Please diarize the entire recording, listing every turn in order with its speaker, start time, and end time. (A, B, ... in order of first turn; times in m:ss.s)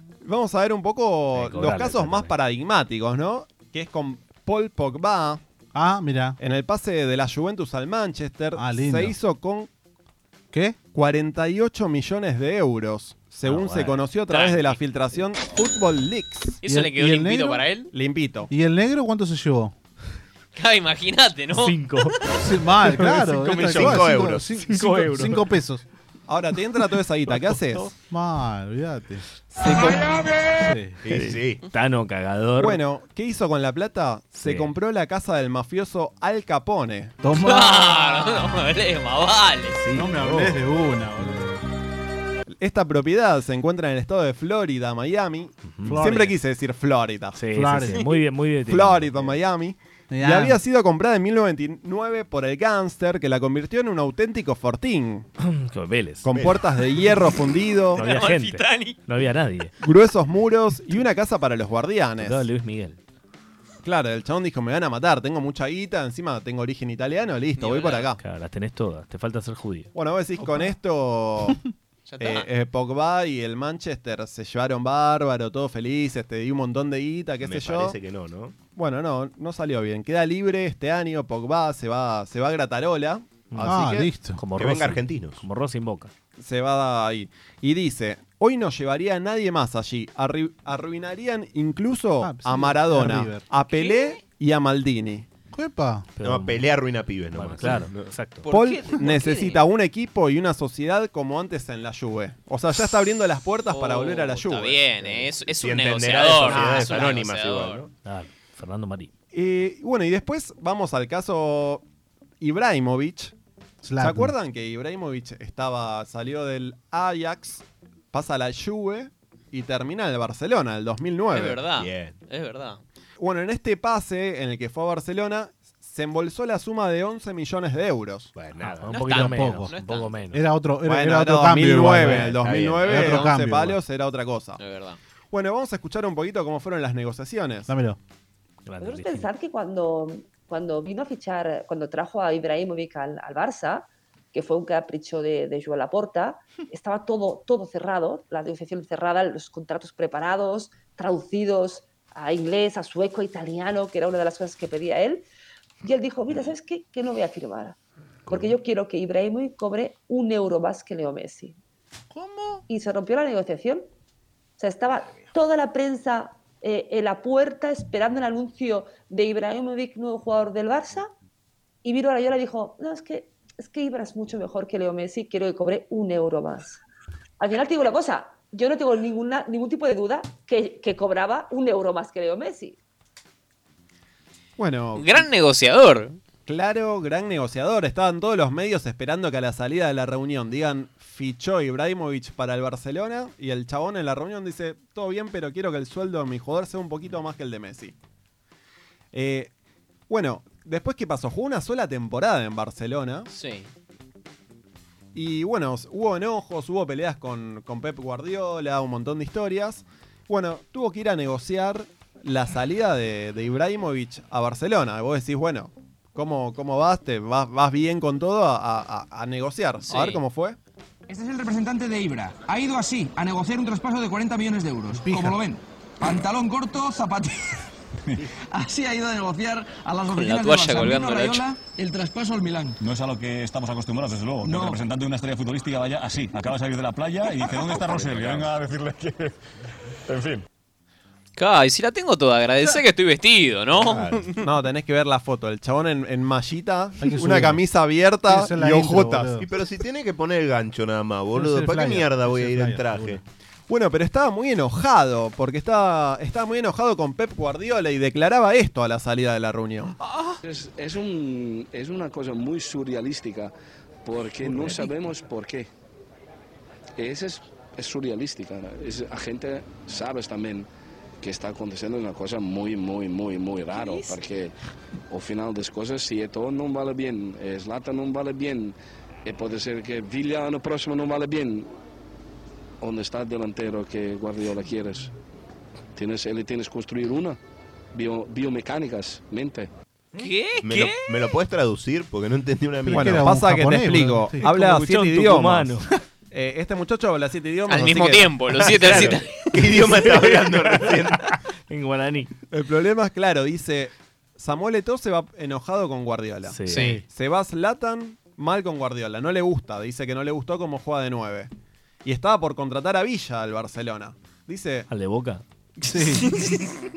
0:00.2-0:05.4 A
0:01.3-0:02.3 B
0:05.7-0:06.4 C
0:06.4-0:09.7 A
0:08.6-0:09.1 C
0:10.5-0:10.8 C
0:10.9-0:16.6 A
0:13.4-0:14.0 B
0:14.3-0:14.8 D
0:16.6-0:17.9 D
0:16.6-0:17.6 C
0:17.9-0:18.5 A
0:18.5-0:19.7 C
0:20.5-0:21.9 D
0:21.5-0:22.1 B
0:22.4-0:25.8 C
0:22.8-0:24.0 B
0:23.3-0:24.6 E
0:24.6-0:25.4 B
0:26.3-0:27.9 A
0:27.3-0:27.9 B
0:28.1-0:30.0 C
0:29.5-0:30.1 A
0:30.6-0:31.0 C
0:31.0-0:31.6 E
0:31.1-0:32.8 B
0:32.6-0:37.1 A
0:34.4-0:34.7 B
0:37.2-0:38.3 C
0:37.4-0:39.8 D
0:39.7-0:40.6 B
0:39.9-0:41.6 C
0:42.6-0:47.4 A
0:45.7-0:46.0 B
0:45.8-0:46.3 C
0:47.4-0:49.3 B
0:47.5-0:48.0 C
0:48.6-0:55.2 A
0:50.1-0:50.6 C
0:55.4-0:56.3 B
0:56.2-0:58.0 A
0:57.9-0:59.0 D
0:57.9-0:59.7 B
0:59.8-1:02.4 A
1:02.2-1:03.0 B
1:03.8-1:08.2 A
1:07.6-1:08.1 D
1:08.2-1:09.9 B
1:09.9-1:11.6 A
1:12.1-1:12.5 D
1:12.2-1:17.9 A
1:17.4-1:18.5 E
1:18.8-1:23.2 A
1:23.5-1:26.1 B
1:23.6-1:25.4 E
1:23.6-1:24.4 C
1:26.4-1:35.3 A
1:32.2-1:33.4 C
1:33.8-1:34.2 D
1:35.5-1:36.1 C
1:36.2-1:36.6 B
1:36.2-1:38.1 E
1:37.3-1:38.4 B
1:38.4-1:39.6 D
1:38.5-1:45.2 A
1:43.7-1:47.8 D
1:45.5-1:47.9 E
1:48.0-1:49.1 B
1:49.3-1:51.8 A
1:52.4-1:53.3 A
1:53.8-1:54.3 C
1:54.0-2:01.6 A
2:01.3-2:02.8 D
2:01.8-2:02.2 E
2:03.2-2:08.3 A
2:08.4-2:08.8 E
2:08.6-2:10.4 B
2:08.9-2:10.1 D
2:08.9-2:09.7 C
2:10.3-2:13.8 C
2:10.8-2:14.6 A
2:12.0-2:13.2 E
2:14.6-2:15.0 D
2:15.3-2:17.7 A
2:17.7-2:18.0 C
2:18.6-2:19.3 B
2:18.8-2:35.2 F
2:35.8-2:37.7 F
2:38.3-2:38.5 E
2:38.3-2:41.5 F
2:42.1-2:42.6 C
2:42.7-2:43.8 F
2:44.6-2:51.1 F
2:51.8-2:56.8 F
2:57.4-3:02.8 F
3:04.6-3:05.2 A
3:05.0-3:06.2 D
3:06.4-3:17.9 A
3:19.1-3:19.5 A
3:20.1-3:23.3 A
3:23.3-3:23.7 D
3:25.1-3:40.6 A
3:39.8-3:40.2 D
3:41.2-3:45.5 G
3:44.9-3:45.4 C
3:46.3-3:47.2 G
3:48.6-3:52.7 G
3:50.1-3:51.4 D
3:52.9-3:59.3 H
3:54.4-3:54.8 G
3:57.8-3:58.4 G
3:57.9-3:58.5 E
4:00.1-4:00.4 H
4:01.4-4:04.4 D
4:03.7-4:04.3 E
4:04.4-4:09.3 A
4:07.0-4:07.6 C
4:08.2-4:09.5 C
4:09.4-4:13.2 E
4:11.3-4:13.2 C
4:13.7-4:19.9 A
4:20.4-4:23.5 I
4:24.0-4:25.7 I
4:27.0-4:30.7 I
4:31.2-4:34.5 I
4:35.1-4:41.7 I
4:42.8-4:45.1 I
4:45.9-4:47.4 I
4:47.9-4:49.7 I
4:50.2-4:51.0 D
4:50.6-4:53.2 E
4:52.8-4:54.4 C
4:52.9-4:58.4 A
4:54.4-4:55.9 B
4:57.7-4:59.5 D
4:58.6-5:01.2 E
5:00.9-5:01.1 B
5:01.7-5:02.3 B
5:02.5-5:11.5 A
5:06.5-5:07.0 B
5:06.7-5:07.0 D
5:06.7-5:07.0 C
5:12.0-5:14.9 A
5:14.9-5:15.4 B
5:15.8-5:16.7 D
5:15.9-5:16.3 C